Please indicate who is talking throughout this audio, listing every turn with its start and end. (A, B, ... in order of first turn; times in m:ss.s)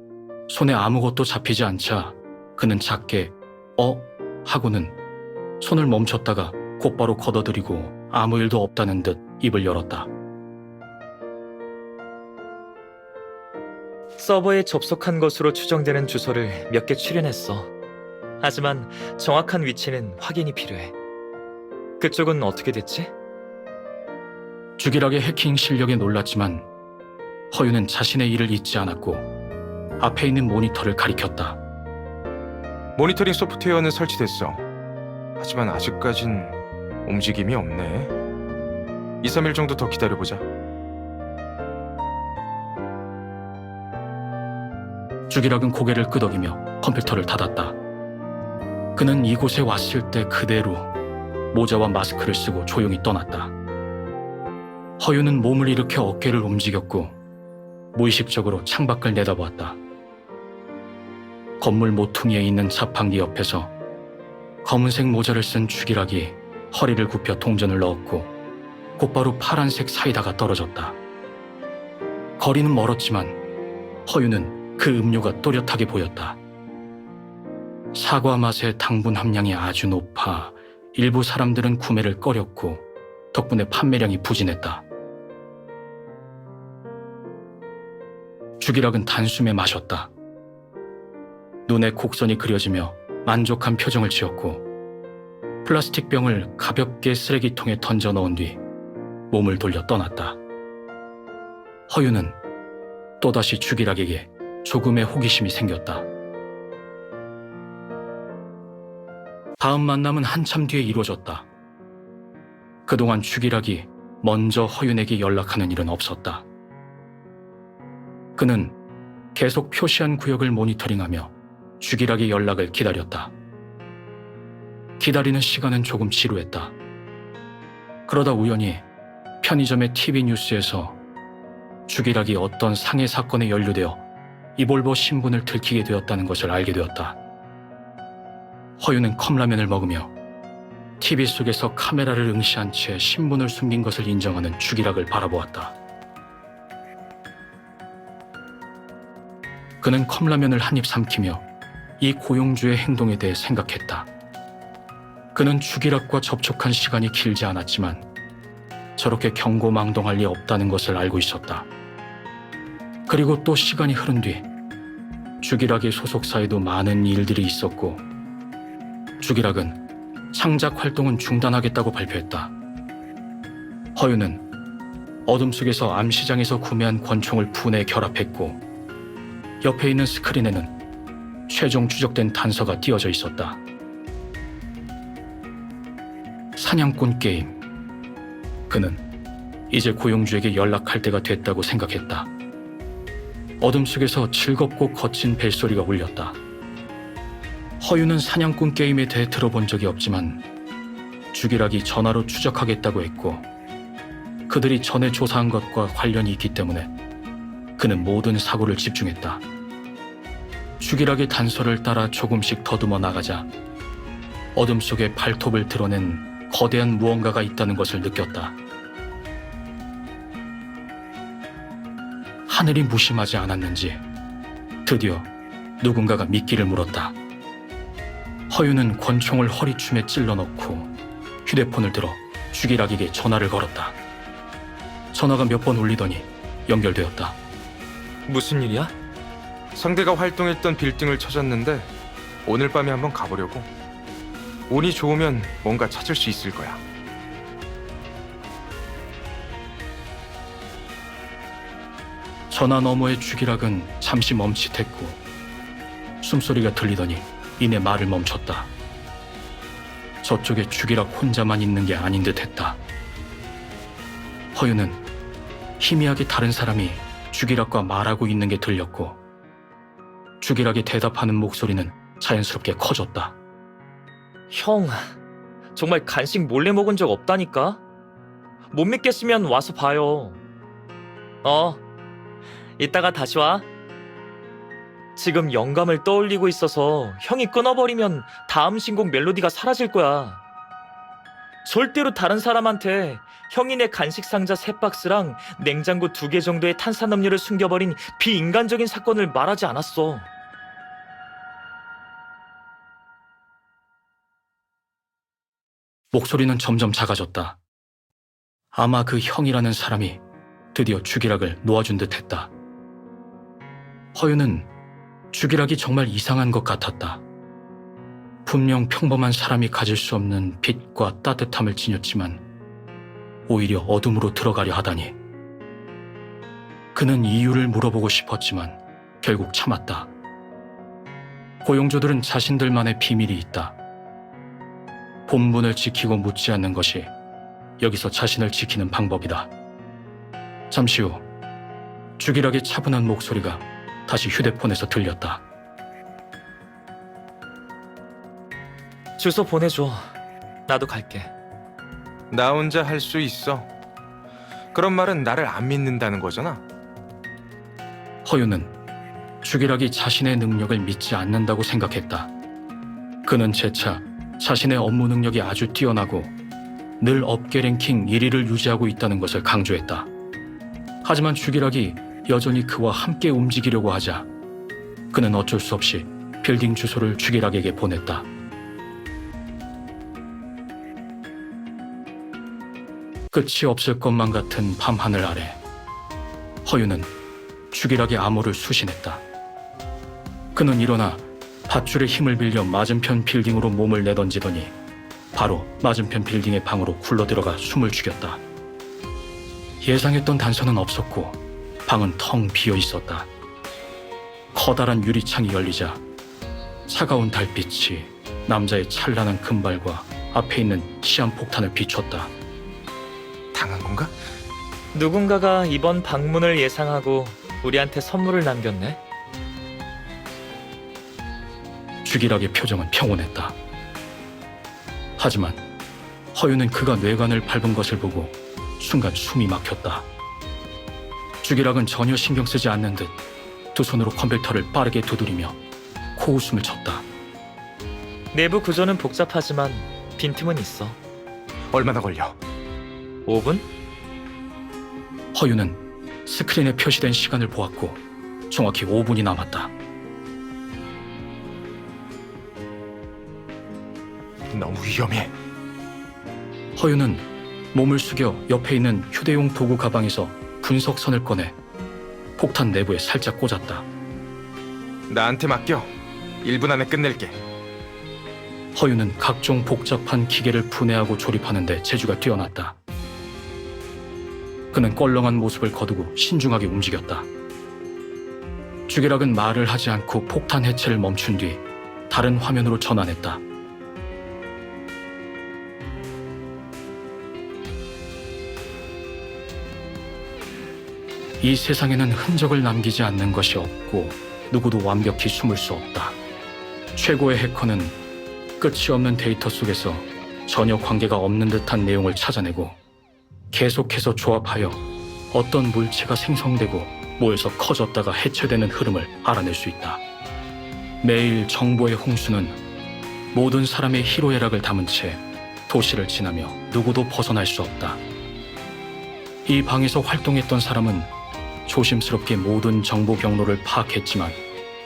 0:00.5-0:05.0 A
0:05.6-0:10.1 A
0:14.2-0:17.7 B
0:18.4-0:20.9 B
0:22.0-0:23.1 B
0:24.8-0:26.7 A
0:27.5-0:29.2 A
0:30.0-0:31.6 A
0:33.0-0:34.6 C
0:35.4-0:38.1 C
0:39.2-0:40.4 C
0:45.3-0:47.8 A
0:49.0-0:50.9 A
0:51.5-0:53.5 A
0:55.0-0:57.2 A
0:57.9-0:59.8 A
1:01.6-1:03.7 A
1:04.6-1:08.3 A
1:09.0-1:11.0 A
1:12.4-1:13.4 A
1:14.0-1:16.4 A
1:17.9-1:24.8 A
1:28.6-1:30.1 A
1:31.6-1:34.6 A
1:35.6-1:38.6 A
1:39.3-1:40.4 A
1:41.9-1:42.4 A
1:43.2-1:46.1 A
1:49.6-1:51.5 A
1:52.8-1:56.4 A
1:58.4-1:58.7 A
1:59.3-2:03.3 A
2:05.0-2:06.7 A
2:08.1-2:08.8 A
2:09.4-2:11.0 A
2:11.9-2:14.0 A
2:14.6-2:17.2 A
2:18.8-2:20.1 A
2:21.0-2:25.8 A
2:29.8-2:31.4 A
2:32.0-2:34.1 A
2:35.3-2:38.0 A
2:39.0-2:41.7 A
2:43.1-2:44.4 A
2:45.4-2:48.0 A
2:49.2-2:49.8 A
2:50.3-2:52.5 A
2:54.0-2:54.4 A
2:55.2-2:58.6 A
2:59.6-3:00.7 A
3:01.5-3:03.6 A
3:06.6-3:07.6 A
3:08.7-3:09.0 A
3:09.7-3:12.3 A
3:13.6-3:16.4 A
3:17.8-3:20.4 A
3:21.3-3:23.4 A
3:24.5-3:26.9 A
3:27.8-3:29.4 A
3:30.8-3:33.5 A
3:34.5-3:38.6 A
3:42.5-3:44.0 A
3:44.8-3:45.3 A
3:45.8-3:47.2 A
3:48.5-3:50.9 A
3:51.4-3:54.0 A
3:55.1-3:57.4 A
3:58.3-3:58.9 B
3:59.7-4:01.9 C
4:02.4-4:03.7 C
4:04.7-4:06.8 C
4:12.5-4:15.2 A
4:16.2-4:18.7 A
4:20.2-4:22.8 A
4:24.5-4:25.0 A
4:25.8-4:29.2 A
4:30.4-4:33.4 A
4:34.5-4:35.1 B
4:35.8-4:37.8 B
4:38.7-4:40.4 B
4:41.4-4:41.8 B
4:42.8-4:43.7 B
4:45.2-4:50.4 B
4:51.6-5:00.3 B
5:06.1-5:07.6 A
5:08.7-5:10.2 A
5:10.7-5:12.5 A
5:14.1-5:14.7 A
5:15.3-5:17.2 A
5:18.4-5:22.4 A
5:23.5-5:25.1 A
5:26.9-5:30.1 A
5:31.6-5:33.8 A
5:35.3-5:37.1 A
5:37.8-5:39.5 A
5:40.7-5:41.2 A
5:42.2-5:45.4 A
5:49.2-5:50.1 B
5:50.7-5:51.3 B
5:52.3-5:53.7 C
5:54.7-5:56.6 C
5:58.2-5:58.7 A
5:59.4-6:02.3 A
6:03.2-6:06.3 A
6:07.0-6:10.1 A
6:11.0-6:14.3 A
6:15.1-6:18.3 A
6:23.3-6:25.6 A
6:26.6-6:27.1 A
6:27.7-6:29.2 A
6:30.5-6:34.7 A
6:35.3-6:38.4 A
6:39.8-6:43.3 A
6:44.5-6:46.0 A
6:46.9-6:52.3 A
6:53.5-6:54.1 C
6:54.9-6:59.0 B
7:02.0-7:03.6 A
7:05.2-7:05.6 A
7:06.3-7:10.1 A
7:11.4-7:13.1 A
7:13.7-7:15.6 A
7:16.2-7:17.0 A
7:18.3-7:21.0 B
7:21.7-7:22.4 C
7:23.2-7:23.7 B
7:25.3-7:29.7 A
7:34.5-7:35.3 C
7:36.8-7:41.6 A
7:42.4-7:43.8 A
7:45.1-7:45.9 C
7:46.4-7:47.4 C
7:48.7-7:52.8 A
7:54.7-7:57.3 A
7:58.9-8:03.4 A
8:11.4-8:16.2 A
8:16.9-8:18.0 A
8:18.6-8:22.8 A
8:23.5-8:30.0 A
8:31.0-8:32.6 A
8:33.3-8:38.0 A
8:39.4-8:41.1 A
8:41.6-8:44.4 A